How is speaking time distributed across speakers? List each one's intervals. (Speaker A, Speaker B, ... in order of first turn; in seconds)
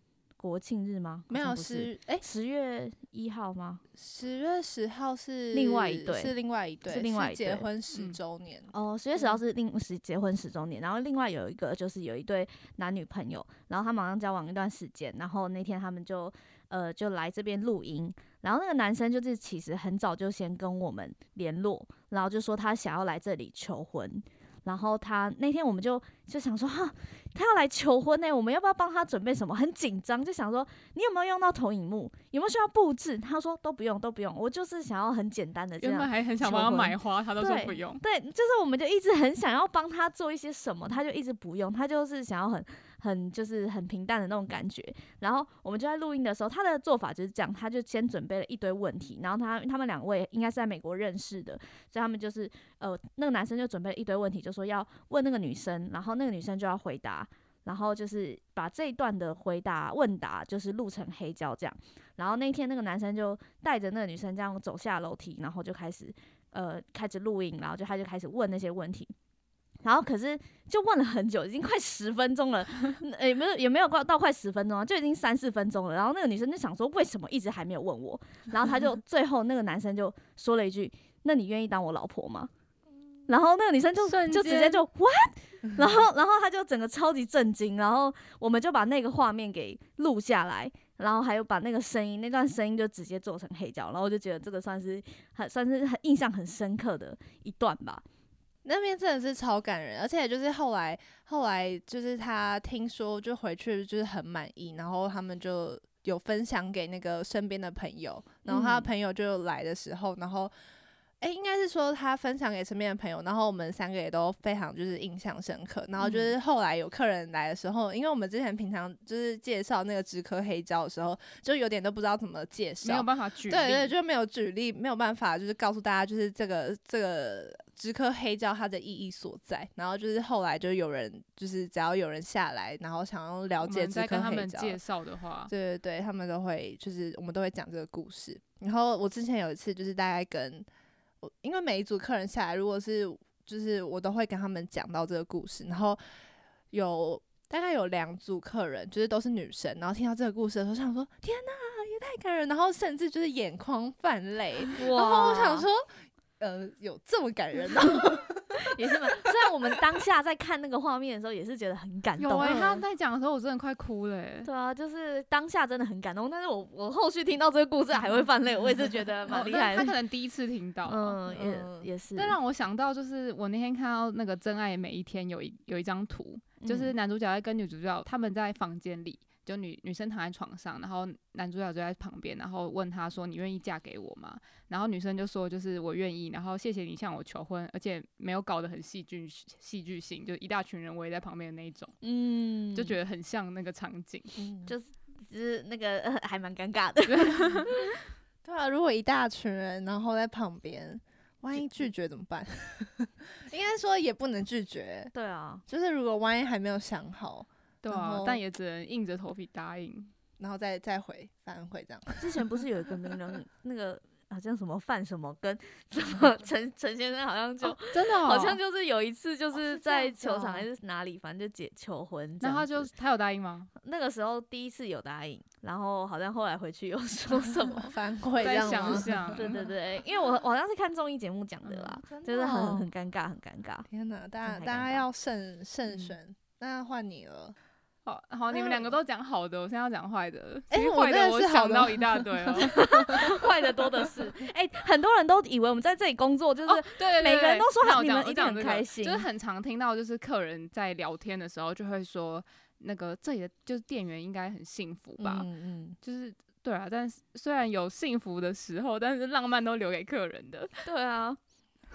Speaker A: 0.4-3.8, 5.5-6.3, 6.9-7.7, 8.7-69.1, 69.8-82.5, 83.3-98.0, 108.4-108.9, 154.7-155.7, 158.5-162.8, 164.4-169.9, 170.9-172.4, 176.6-176.9, 192.0-192.9, 194.7-197.9, 205.1-205.6, 212.2-222.9, 223.8-227.9, 228.5-233.9, 234.4-235.1, 242.6-249.2, 260.8-261.4
Speaker B: 1.3-2.2, 4.0-8.7, 98.6-110.5, 111.2-134.8, 135.5-140.7, 141.2-146.0, 146.7-155.9, 156.4-158.6, 162.4-162.8, 169.3-169.9, 171.3-171.9, 194.4-194.7, 198.4-205.1, 205.7-208.4, 210.4-212.4, 219.5-220.7, 227.4-229.7, 232.1-232.9, 233.9-237.5, 238.5-238.9, 240.7-243.4, 255.2-256.0
Speaker C: 7.9-8.2, 35.8-38.0, 84.0-84.8, 122.8-123.9, 133.6-135.5, 162.2-164.5, 169.3-171.2, 172.2-191.9, 192.7-194.3, 197.1-197.7, 207.8-210.1, 217.6-218.6, 222.4-223.7, 228.4-229.5, 231.6-232.0, 238.1-242.8, 246.7-255.5, 256.0-260.8